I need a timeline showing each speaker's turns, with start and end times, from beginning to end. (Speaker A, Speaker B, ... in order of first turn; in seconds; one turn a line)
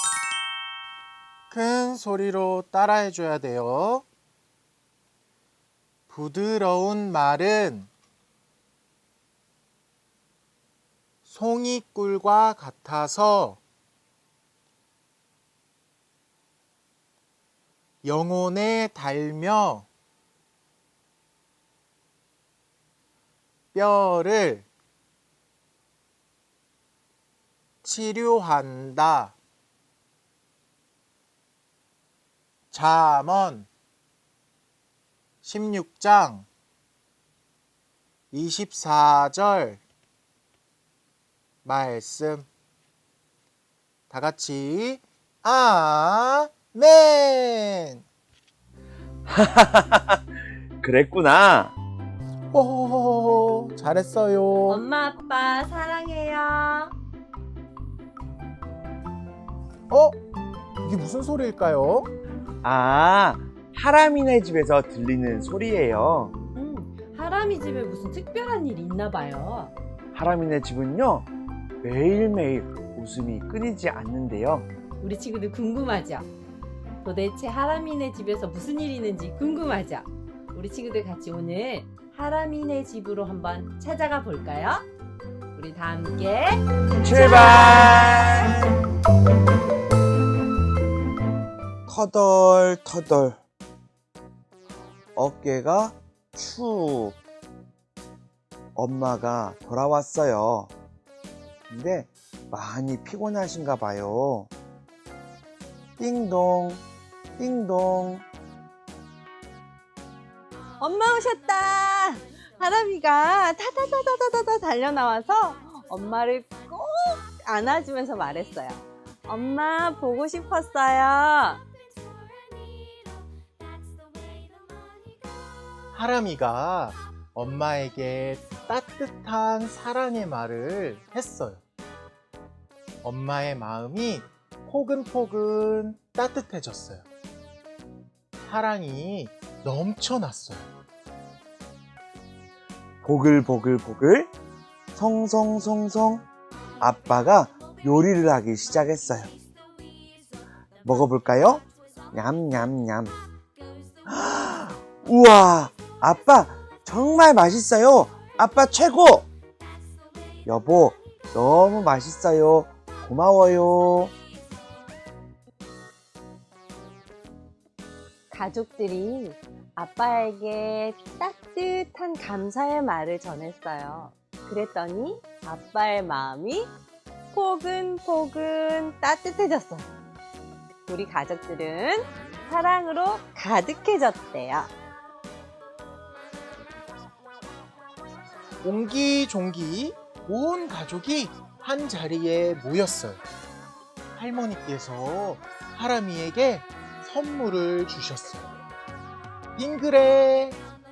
Speaker A: 1.5-4.1
Speaker A: 6.1-7.9
Speaker A: 11.2-13.6
Speaker A: 18.0-19.9
Speaker A: 23.7-24.7
Speaker A: 27.8-29.4
Speaker A: 32.7-33.7
Speaker A: 35.4-36.5
Speaker A: 38.3-39.8
Speaker A: 41.6-42.5
Speaker A: 44.1-48.0
Speaker B: 49.3-50.2
Speaker B: 50.8-51.7
Speaker A: 52.5-54.9
Speaker C: 54.7-56.9
Speaker A: 59.9-60.2
Speaker A: 60.8-62.1
Speaker B: 62.6-66.3
Speaker C: 66.5-69.7
Speaker B: 70.1-71.3
Speaker B: 71.8-74.7
Speaker C: 75.0-76.3
Speaker C: 77.0-84.8
Speaker C: 85.6-88.0
Speaker B: 87.0-88.7
Speaker B: 91.9-93.4
Speaker B: 95.2-97.2
Speaker B: 98.8-100.7
Speaker B: 101.7-104.5
Speaker B: 106.0-106.8
Speaker B: 107.4-108.3
Speaker D: 110.8-121.6
Speaker A: 125.9-131.6
Speaker A: 133.0-137.1
Speaker A: 138.4-140.7
Speaker B: 143.0-144.3
Speaker B: 144.9-146.3
Speaker B: 146.8-149.3
Speaker B: 150.8-153.2
Speaker B: 154.1-159.3
Speaker B: 160.5-164.1
Speaker D: 168.3-176.8
Speaker D: 177.3-179.9
Speaker D: 180.9-184.7
Speaker A: 188.6-193.2
Speaker A: 194.2-198.5
Speaker A: 199.6-200.6